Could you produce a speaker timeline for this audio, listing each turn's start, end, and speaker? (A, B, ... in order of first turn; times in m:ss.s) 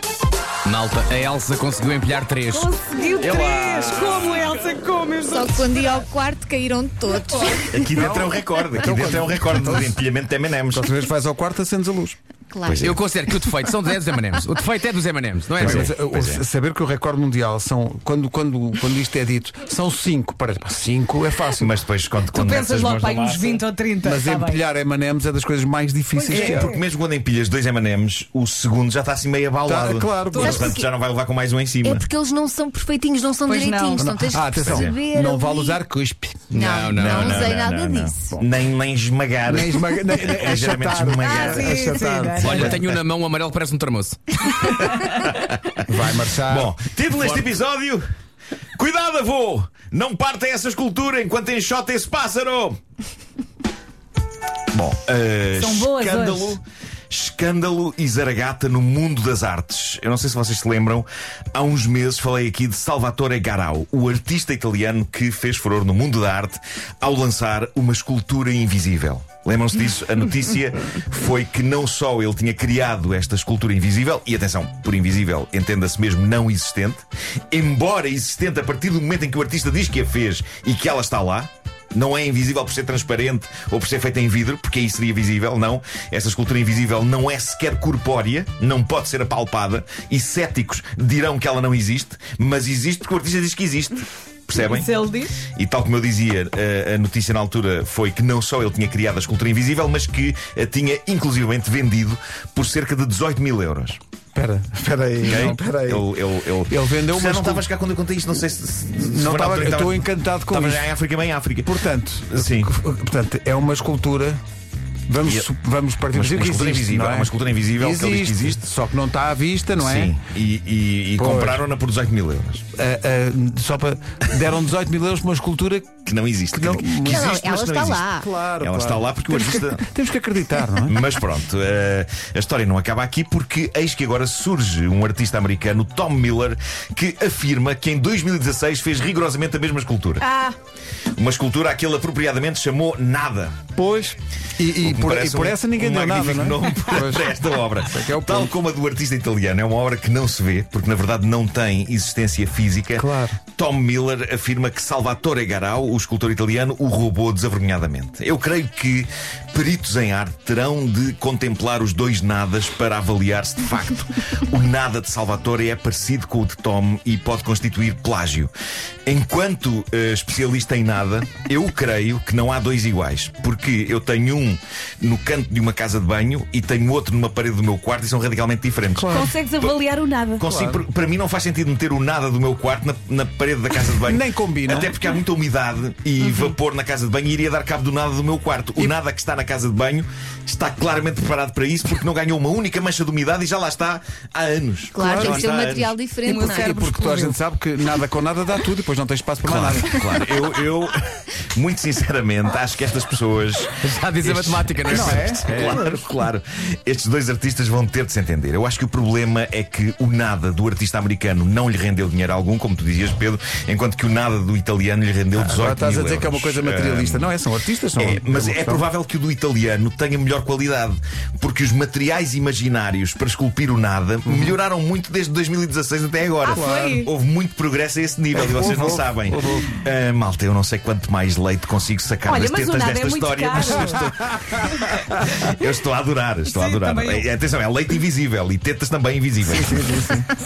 0:00.6-0:02.7 A
0:02.5-0:05.8 B
0:03.2-0:04.2 A
0:05.3-0:08.0 C
0:07.7-0:10.9 D
0:07.9-0:09.9 E
0:10.7-0:12.2 E
0:12.5-0:12.9 C
0:12.6-0:13.0 D
0:12.8-0:15.9 A
0:15.6-0:21.7 E
0:15.6-0:16.4 D
0:21.5-0:23.6 D
0:22.3-0:24.6 B
0:24.0-0:26.8 E
0:26.1-0:26.8 B
0:26.3-0:32.1 D
0:29.6-0:30.7 E
0:30.3-0:30.9 B
0:30.4-0:30.7 C
0:31.8-0:35.8 C
0:33.4-0:34.1 B
0:34.0-0:36.4 E
0:34.5-0:35.0 D
0:36.5-0:38.4 C
0:36.5-0:43.0 D
0:36.6-0:37.4 A
0:39.5-0:42.7 E
0:41.2-0:42.7 B
0:42.4-0:44.8 A
0:44.6-0:45.7 D
0:45.8-0:46.7 E
0:46.4-0:48.0 D
0:47.1-0:47.5 A
0:48.8-0:52.8 D
0:54.7-1:44.0 D
0:55.5-0:56.6 B
1:34.5-1:35.4 B
1:44.3-1:46.1 E
1:45.2-1:51.8 D
1:46.7-1:47.7 E
1:49.0-1:50.9 E
1:51.6-1:54.4 E
1:52.3-1:52.7 D
1:55.1-2:00.1 E
1:55.2-1:55.5 D
1:56.1-1:58.6 D
1:59.8-2:02.6 D
2:01.2-2:01.6 E
2:02.8-2:07.4 E
2:06.0-2:09.8 D
2:07.0-2:08.3 C
2:08.2-2:11.0 E
2:10.8-2:20.2 D
2:20.2-2:20.6 B
2:21.2-2:23.6 D
2:23.7-2:28.5 E
2:24.7-2:48.5 D
2:33.0-2:33.4 E
2:49.0-2:59.7 D
2:58.9-2:59.3 E
2:59.1-3:00.4 B
3:00.4-3:16.0 D
3:00.4-3:00.8 E
3:04.0-3:04.9 E
3:14.9-3:16.8 C
3:15.0-3:15.5 E
3:16.2-3:17.4 B
3:16.2-3:20.0 E
3:19.4-3:37.4 D
3:23.8-3:25.8 A
3:24.9-3:25.4 E
3:35.3-3:38.8 E
3:38.0-4:00.1 D
3:44.2-3:44.5 E
3:46.4-3:47.1 B
3:46.5-3:47.0 E
3:48.3-3:49.8 E
3:52.2-3:54.1 B
3:54.4-3:54.9 E
3:56.4-3:57.3 B
3:59.4-4:00.3 E